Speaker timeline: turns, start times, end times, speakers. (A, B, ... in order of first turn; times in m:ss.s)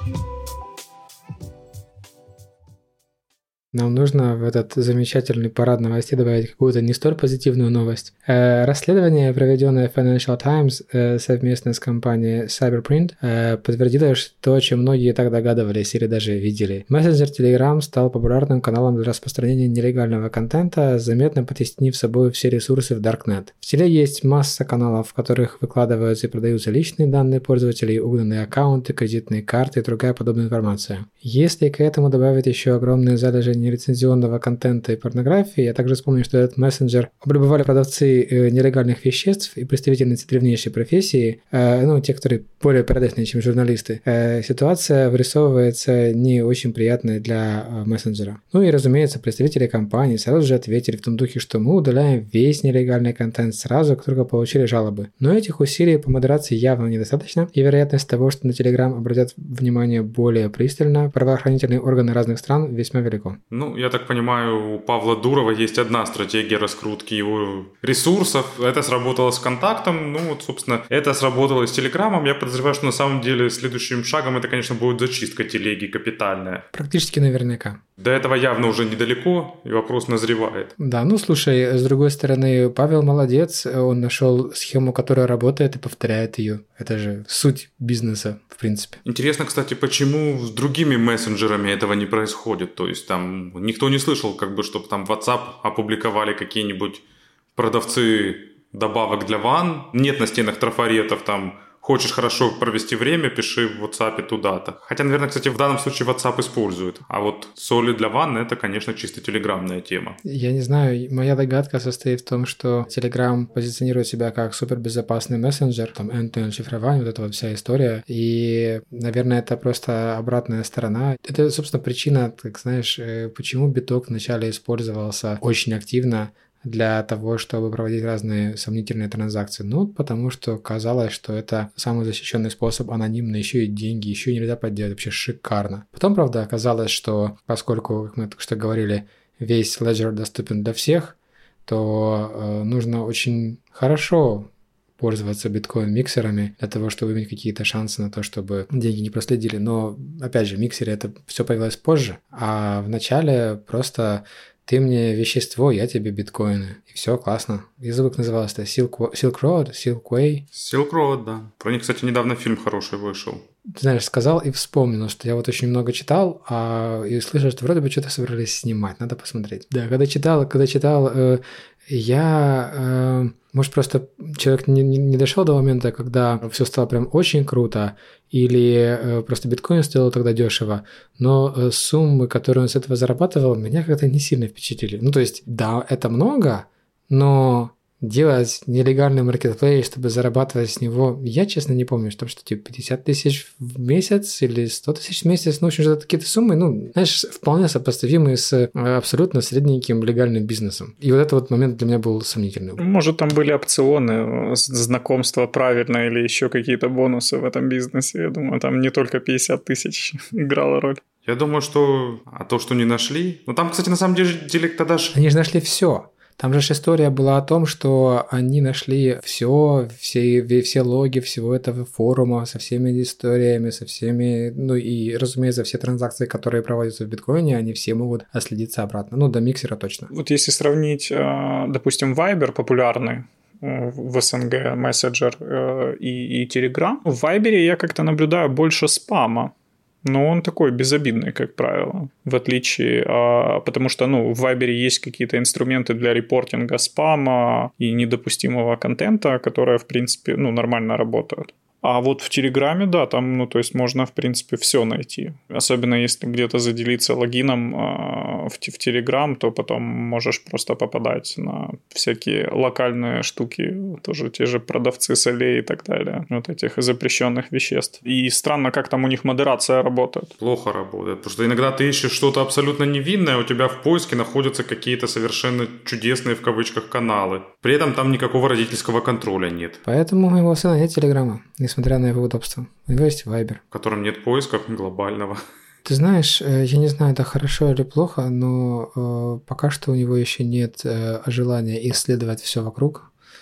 0:03.7-1:03.4 A
1:03.5-1:16.7 B
1:16.7-1:17.8 A
1:18.0-1:20.7 B
1:20.8-1:29.0 A
1:29.0-1:37.0 B
1:37.6-1:50.2 B
1:50.2-2:40.5 A
2:40.5-2:43.4 B
2:43.7-3:22.8 A
3:22.8-3:31.0 C
3:31.3-3:35.2 B
3:35.1-3:50.1 A
3:50.1-3:59.5 C
4:00.0-4:30.3 C
4:30.4-4:39.8 B
4:39.8-4:43.6 A
4:43.7-4:45.4 B
4:45.8-4:53.1 A